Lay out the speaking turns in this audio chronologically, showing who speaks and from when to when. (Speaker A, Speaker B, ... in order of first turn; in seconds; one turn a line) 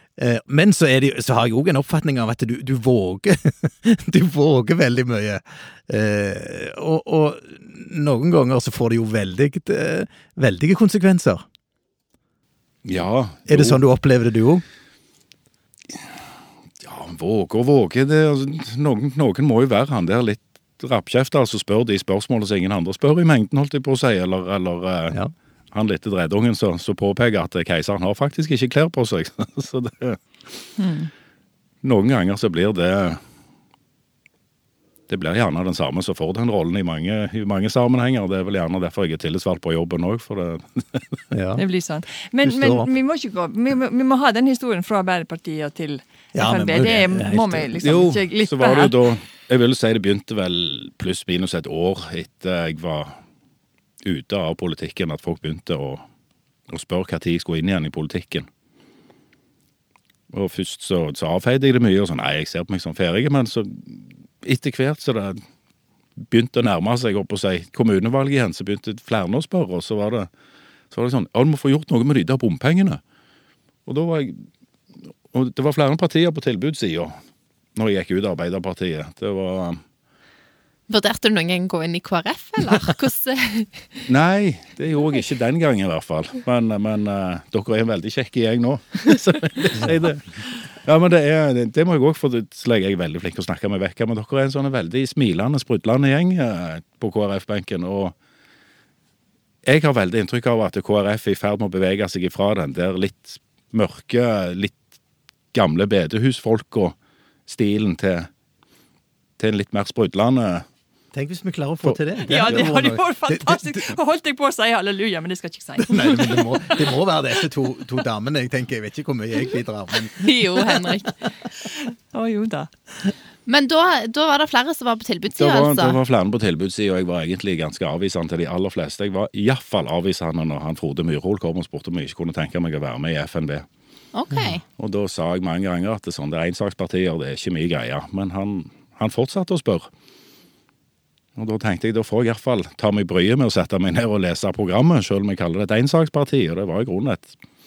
Speaker A: 0.2-11.4
Speaker B: 12.8-13.8
Speaker A: 13.5-14.6
Speaker B: 16.8-25.2
Speaker B: 25.7-30.7
Speaker C: 30.8-31.1
Speaker B: 31.8-33.2
Speaker B: 35.1-41.2
Speaker A: 41.3-41.6
Speaker C: 41.6-49.0
Speaker A: 42.4-42.9
Speaker A: 46.3-47.7
Speaker B: 47.8-53.2
Speaker B: 54.0-56.1
Speaker B: 56.7-58.5
Speaker B: 60.3-65.4
Speaker B: 66.2-70.3
Speaker B: 70.9-73.0
Speaker B: 73.9-74.5
Speaker B: 75.3-77.2
Speaker B: 77.8-79.8
Speaker D: 80.9-84.0
Speaker B: 84.1-98.2
Speaker B: 99.6-104.8
Speaker B: 105.5-107.0
Speaker B: 107.5-108.3
Speaker B: 109.4-110.7
Speaker A: 111.1-113.8
Speaker B: 111.8-112.7
Speaker C: 112.2-116.8
Speaker A: 115.9-120.8
Speaker D: 120.2-121.2
Speaker C: 121.7-122.7
Speaker D: 123.5-126.0
Speaker B: 125.4-133.7
Speaker D: 134.1-134.6
Speaker B: 134.8-139.9
Speaker B: 141.4-147.3